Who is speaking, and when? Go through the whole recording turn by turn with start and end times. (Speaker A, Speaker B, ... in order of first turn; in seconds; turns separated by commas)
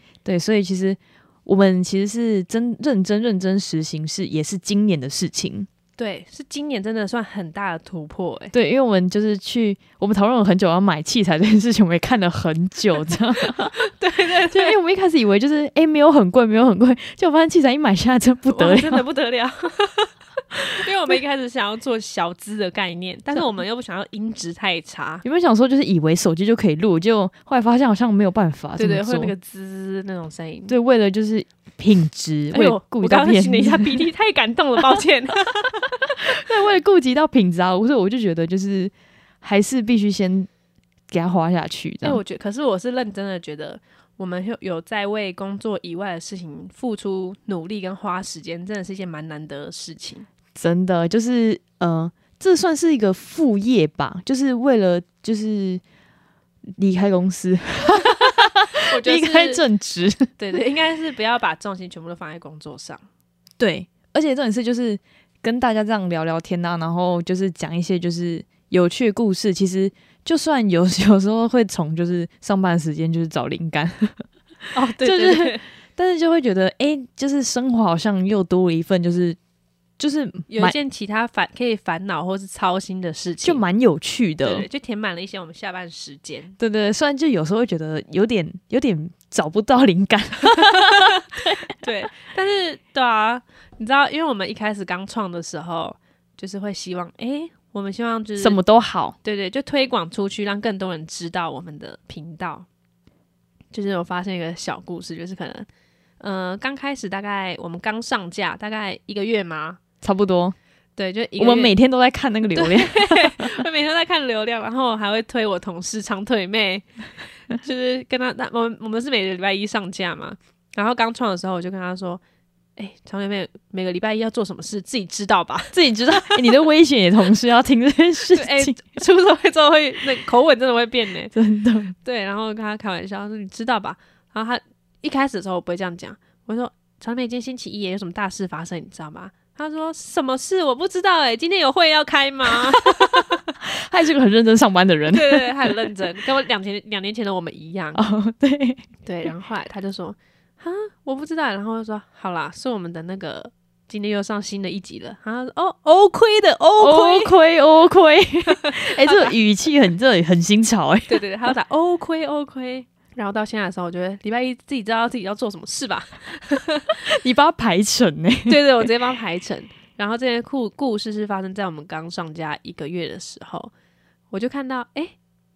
Speaker A: 0.2-5.7, Speaker B: 6.0-8.5, Speaker A: 8.5-13.7, Speaker B: 13.5-14.8, Speaker A: 14.5-19.0, Speaker B: 18.5-25.2, Speaker A: 25.2-29.3, Speaker B: 28.8-30.7, Speaker A: 30.7-34.0, Speaker B: 32.5-36.0, Speaker A: 36.2-40.5, Speaker A: 41.1-42.2, Speaker B: 42.0-50.2, Speaker A: 50.5-55.8, Speaker A: 56.8-60.3, Speaker B: 58.7-59.6, Speaker B: 60.4-63.0, Speaker A: 63.6-74.3, Speaker B: 74.7-75.6, Speaker A: 75.0-79.4, Speaker A: 80.0-80.8, Speaker B: 80.5-83.6, Speaker A: 83.4-84.7, Speaker B: 84.4-86.5, Speaker A: 86.6-91.7, Speaker B: 91.8-98.6, Speaker A: 98.4-99.2, Speaker B: 99.2-102.7, Speaker B: 103.7-105.7, Speaker B: 106.2-109.8, Speaker A: 110.0-110.5, Speaker B: 111.0-111.7, Speaker A: 111.4-113.5, Speaker B: 112.5-116.9, Speaker B: 117.5-122.2, Speaker B: 122.8-126.5, Speaker A: 125.7-128.8, Speaker B: 128.3-131.3, Speaker A: 131.3-131.9, Speaker B: 132.0-143.4, Speaker A: 143.6-145.9, Speaker B: 145.1-148.0, Speaker A: 147.9-149.3, Speaker B: 149.0-157.3, Speaker A: 156.8-161.2, Speaker B: 158.5-159.3, Speaker B: 161.1-166.9, Speaker A: 167.0-168.9, Speaker B: 168.5-173.7, Speaker B: 174.3-175.1